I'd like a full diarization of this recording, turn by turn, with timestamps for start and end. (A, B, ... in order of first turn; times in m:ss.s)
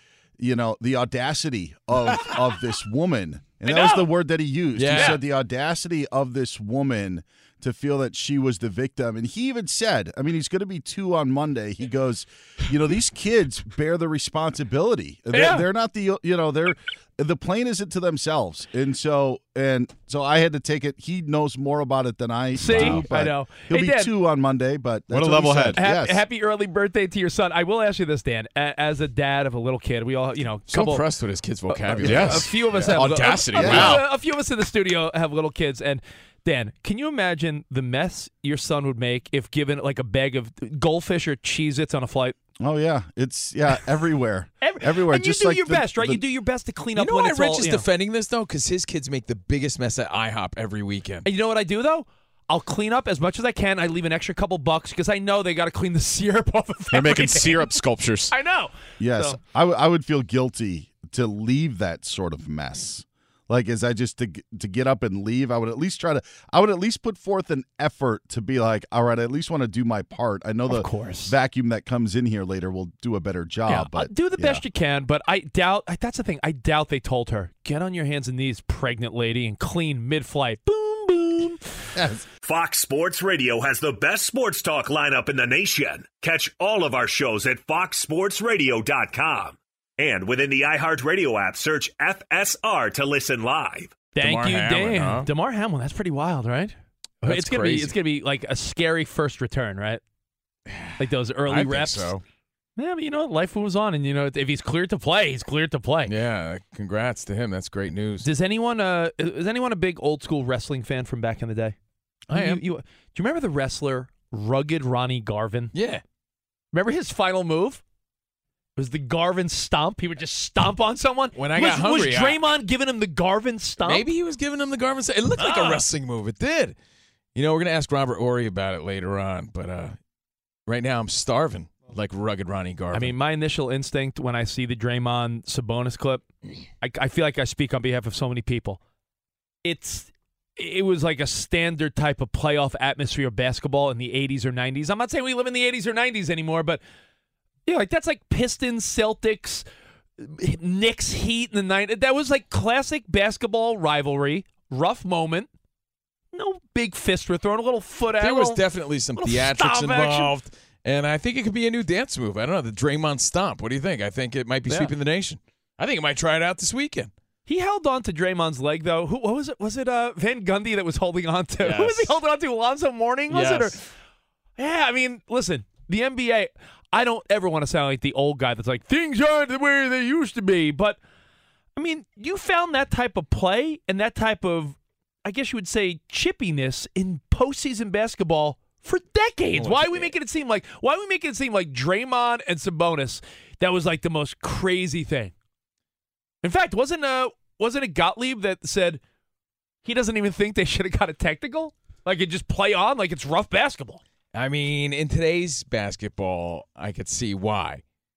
0:00.4-0:26.2 A
0:03.6-0:04.1 B
0:04.8-0:05.2 C
0:04.9-0:05.2 B
0:15.3-0:15.7 B
0:22.6-0:24.1 B
0:22.6-0:23.1 D
0:25.1-0:25.8 D
0:25.7-0:31.0 B
0:30.7-0:34.0 C
0:31.7-0:42.4 B
0:32.0-0:34.0 D
0:32.8-0:33.9 A
0:42.6-0:46.2 A
0:44.6-0:47.9 B
0:47.0-0:51.3 C
0:51.2-0:57.7 B
0:56.9-0:58.3 D
0:58.3-0:59.4 B
0:59.0-1:14.6 A
1:10.7-1:11.3 B
1:13.7-1:21.6 B
1:22.4-1:34.0 E
1:34.1-1:40.0 B
1:34.2-1:35.3 C
1:37.2-1:38.0 C
1:40.7-1:42.2 C
1:41.0-1:42.1 B
1:42.8-1:46.1 B
1:46.1-1:48.3 C
1:48.2-1:51.8 B
1:52.3-1:52.6 C
1:52.3-1:55.7 B
1:55.7-1:56.0 C
1:56.7-1:57.8 B
1:58.8-2:04.1 B
2:01.4-2:02.4 C
2:03.8-2:06.8 C
2:05.4-2:05.8 B
2:07.4-2:10.0 C
2:10.7-2:13.1 C
2:12.9-2:16.2 B
2:16.8-2:18.8 B
2:19.6-2:26.8 B
2:27.7-2:29.6 B
2:30.2-2:35.5 B
2:36.3-2:38.6 B
2:38.2-2:47.1 C
2:39.2-2:40.3 B
2:47.5-2:53.8 B
2:51.6-2:52.1 C
2:53.3-2:53.8 C
2:54.6-3:01.0 B
3:01.8-3:15.3 B
3:09.6-3:10.1 C
3:16.4-3:19.0 B
3:19.8-3:24.0 B
3:24.3-3:27.8 C